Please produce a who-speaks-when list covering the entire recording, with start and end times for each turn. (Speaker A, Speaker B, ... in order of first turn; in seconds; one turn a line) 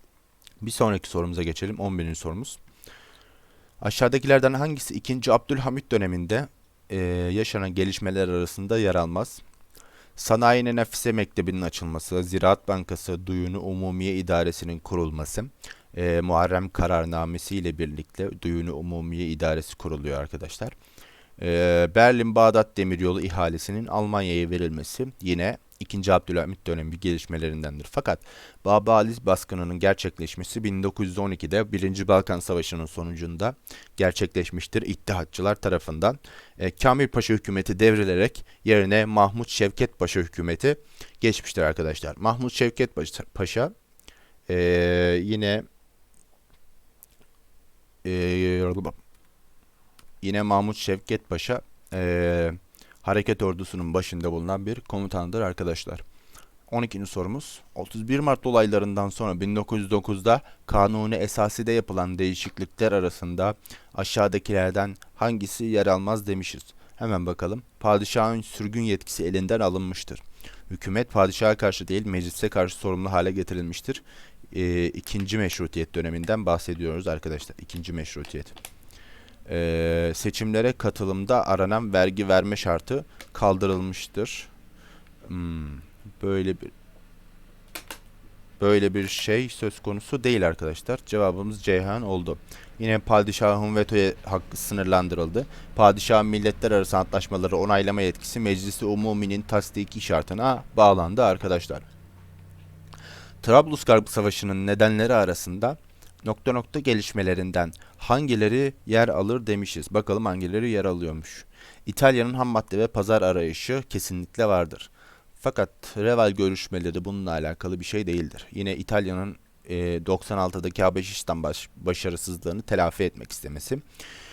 Speaker A: 0.6-2.6
Speaker A: 3.8-9.4
Speaker A: 10.2-20.7
Speaker A: 21.4-43.7
Speaker A: 44.5-45.6
Speaker A: 48.0-49.0
Speaker A: 50.2-56.0
Speaker A: 56.7-78.5
Speaker A: 79.5-84.5
Speaker A: 85.2-86.7
Speaker A: 88.6-101.8
Speaker A: 103.4-123.8